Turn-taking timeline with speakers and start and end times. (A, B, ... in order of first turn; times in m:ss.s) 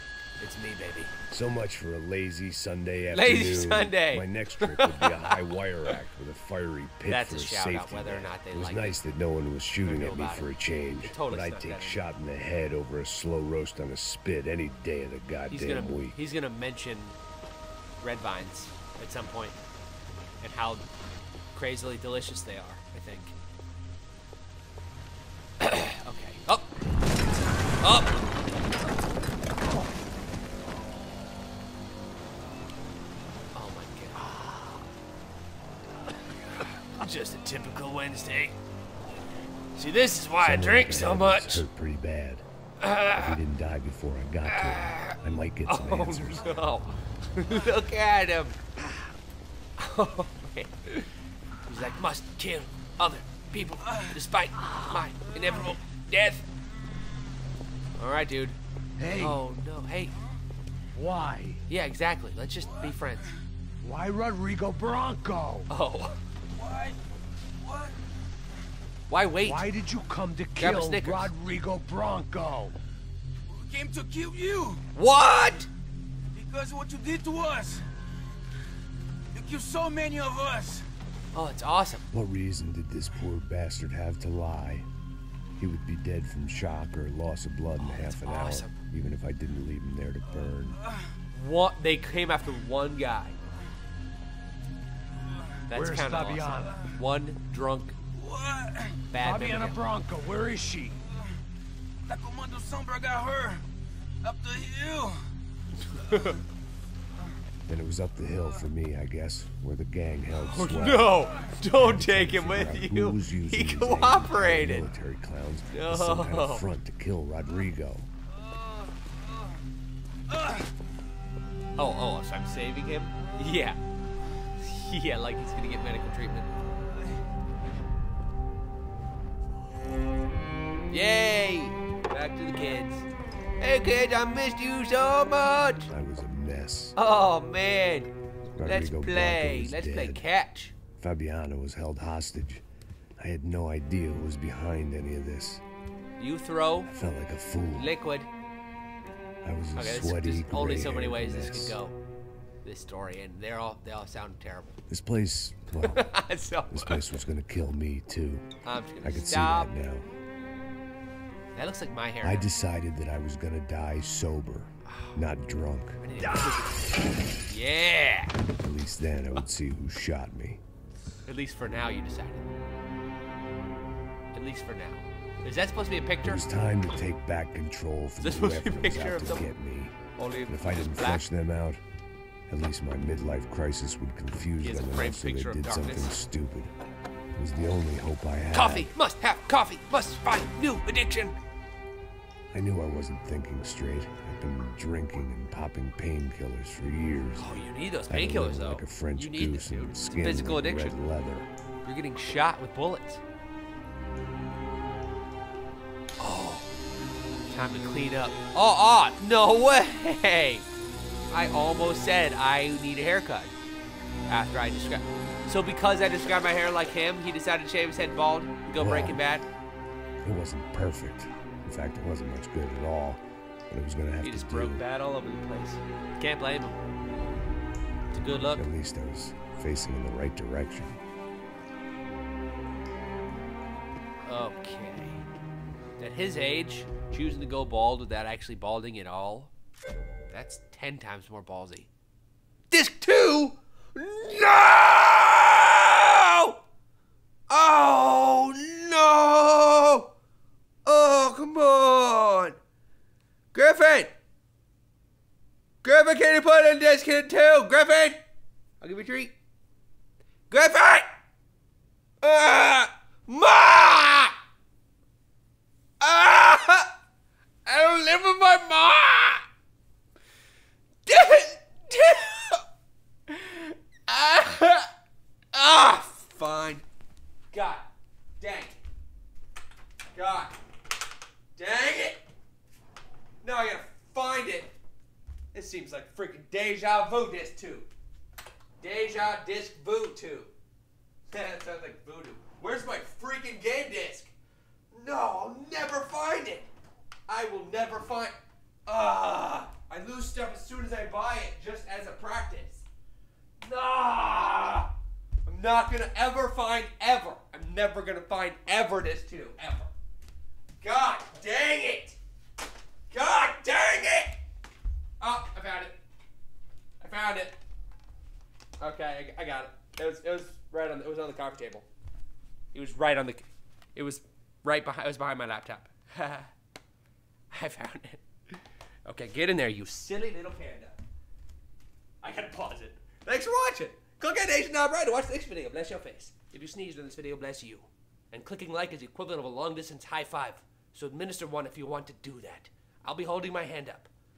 0:00.4-0:01.1 A
0:01.3-0:16.2 B
0:03.1-0:05.9 A
0:07.0-0:09.0 A
0:09.8-0:10.5 A
0:11.0-0:12.0 A
0:15.5-0:17.2 A
0:18.0-0:19.6 A
0:20.4-0:20.8 A
0:21.5-0:23.3 A
0:25.6-0:26.7 A
0:27.8-0:28.3 A
0:33.5-0:34.9 A
0:36.0-0:38.6 A
0:39.7-0:41.6 A
0:40.4-0:42.4 B
0:42.8-0:43.4 A
0:43.1-0:46.6 B
0:44.4-0:48.8 A
0:49.8-0:51.1 A
0:51.6-0:56.4 A
0:58.0-0:58.6 A
0:59.0-0:59.3 B
0:59.1-1:00.1 A
1:01.0-1:01.5 C
1:01.1-1:01.4 B
1:01.7-1:03.3 A
1:03.9-1:04.5 B
1:04.0-1:05.6 C
1:05.0-1:05.5 B
1:05.7-1:06.2 A
1:06.5-1:07.0 D
1:07.6-1:08.0 D
1:09.1-1:09.7 A
1:09.4-1:12.7 C
1:09.9-1:12.6 B
1:10.5-1:11.3 A
1:13.5-1:14.8 D
1:14.9-1:15.7 A
1:16.3-1:17.9 D
1:19.3-1:20.8 D
1:21.3-1:22.0 A
1:22.1-1:24.8 B
1:25.6-1:30.8 B
1:27.8-1:28.8 A
1:31.3-1:33.4 A
1:35.7-1:38.0 A
1:35.7-1:36.7 C
1:36.2-1:36.5 B
1:36.5-1:36.9 D
1:38.2-1:39.1 D
1:39.1-1:39.8 A
1:39.2-1:40.8 C
1:39.3-1:40.8 B
1:42.0-1:43.6 D
1:44.2-1:45.3 D
1:45.8-1:46.4 A
1:47.7-1:58.1 B
1:50.3-1:54.9 A
1:55.7-1:56.6 A
1:58.6-1:58.9 D
2:00.3-2:00.7 D
2:01.8-2:03.8 A
2:04.6-2:06.5 A
2:10.9-2:13.1 A
2:13.6-2:15.9 A
2:15.9-2:17.0 B
2:16.9-2:18.1 A
2:18.6-2:20.2 B
2:18.6-2:20.7 A
2:21.0-2:22.6 B
2:23.2-2:25.6 B
2:26.2-2:26.9 A
2:26.8-2:27.9 B
2:27.7-2:28.3 A
2:29.4-2:31.8 B
2:29.8-2:31.9 A
2:32.6-2:34.8 A
2:34.9-2:36.1 B
2:35.8-2:37.0 A
2:36.7-2:38.5 B
2:38.6-2:39.7 A
2:39.0-2:40.1 B
2:41.5-2:42.4 A
2:42.2-2:46.6 B
2:44.8-2:45.2 A
2:46.0-2:48.3 A
2:48.6-2:50.6 B
2:51.2-2:52.5 A
2:54.3-2:56.4 A
2:56.2-3:01.8 B
2:58.2-2:59.5 A
3:00.2-3:01.2 A
3:02.5-3:06.7 B
3:04.6-3:06.1 A
3:07.4-3:08.9 B
3:08.5-3:11.4 A
3:12.5-3:17.5 B
3:17.4-3:21.0 A
3:18.1-3:21.5 B
3:21.8-3:23.2 A
3:26.2-3:26.7 A
3:27.5-3:30.6 A
3:31.3-3:33.5 A
3:34.3-3:39.4 A
3:38.8-3:39.2 B
3:40.2-3:44.8 B
3:44.2-3:46.8 A
3:48.1-3:48.7 A
3:48.5-3:51.0 B
3:54.2-3:55.2 A
3:56.0-3:59.5 A
4:00.3-4:01.9 A
4:02.7-4:06.6 A
4:07.5-4:10.1 A
4:10.8-4:12.6 A
4:13.5-4:14.1 A
4:15.8-4:18.2 A
4:18.8-4:19.4 A
4:20.5-4:21.1 A
4:22.2-4:24.3 A
4:26.0-4:26.9 A
4:27.6-4:29.4 A
4:31.0-4:32.6 A
4:33.3-4:34.9 A
4:35.5-4:36.8 A
4:37.5-4:37.8 A
4:38.4-4:38.8 A
4:40.1-4:40.5 A
4:41.6-4:42.2 A
4:43.4-4:44.7 A
4:45.5-4:47.9 A
4:48.8-4:50.5 A
4:51.3-4:54.3 A
4:54.9-4:56.7 A
4:57.3-4:58.3 A
4:58.8-5:02.8 A
5:03.6-5:04.9 A
5:05.4-5:09.9 A
5:10.8-5:12.2 A
5:13.1-5:14.4 A
5:15.2-5:16.0 A
5:17.0-5:17.5 A
5:18.8-5:21.8 A
5:22.7-5:26.5 A
5:27.5-5:31.0 A
5:32.2-5:44.1 A